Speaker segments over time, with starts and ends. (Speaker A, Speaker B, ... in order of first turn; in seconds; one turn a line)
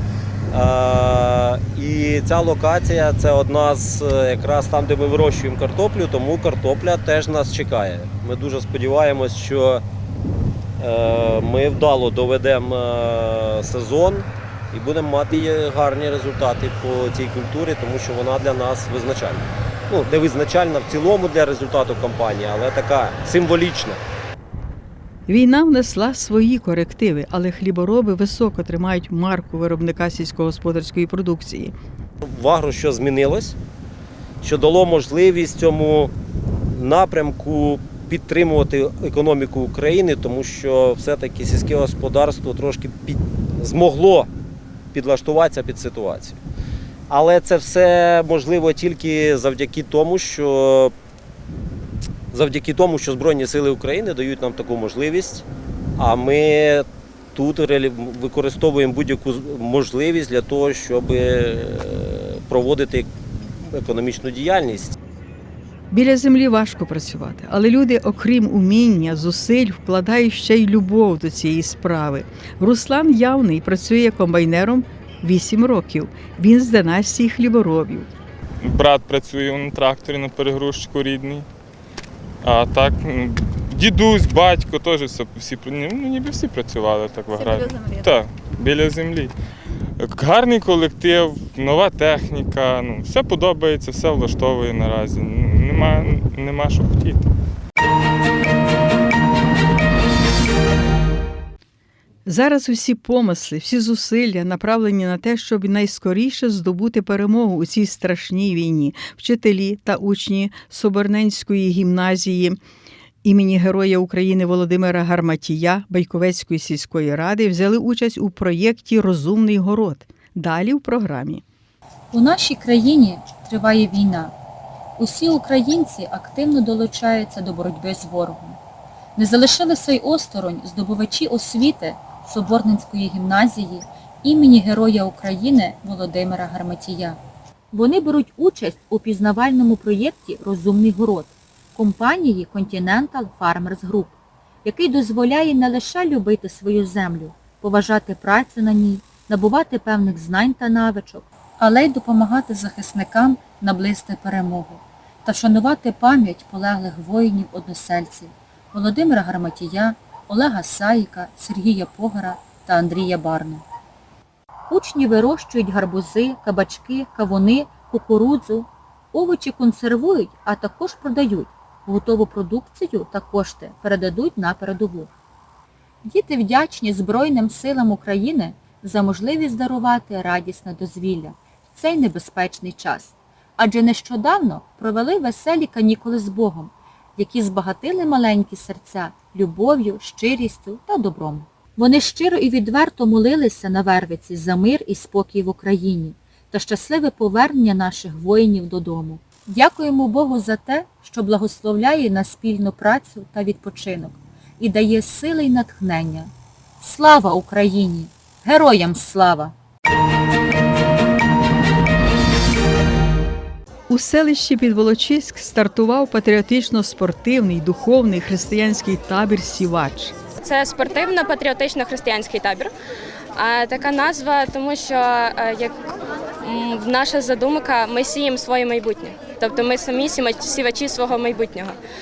Speaker A: 0.6-9.8
Speaker A: 10.8-14.2
Speaker A: 14.8-24.0
Speaker B: 25.3-31.7
Speaker A: 32.3-33.5
Speaker A: 34.5-36.1
Speaker A: 36.8-44.3
Speaker A: 44.9-46.3
Speaker A: 47.1-50.9
Speaker A: 52.4-55.4
Speaker A: 56.0-56.8
Speaker A: 57.4-63.1
Speaker A: 63.7-64.9
Speaker B: 65.9-78.1
Speaker C: 78.6-81.5
Speaker C: 82.4-89.3
Speaker C: 90.0-97.3
Speaker B: 102.2-112.6
Speaker B: 113.2-121.4
Speaker D: 122.1-124.3
Speaker D: 125.0-128.6
Speaker D: 129.2-137.2
Speaker D: 137.7-144.1
Speaker D: 144.6-163.6
Speaker D: 164.7-175.1
Speaker D: 176.1-209.5
Speaker B: 213.9-220.1
Speaker E: 220.4-222.7
Speaker E: 223.3-225.7
Speaker E: 226.4-231.8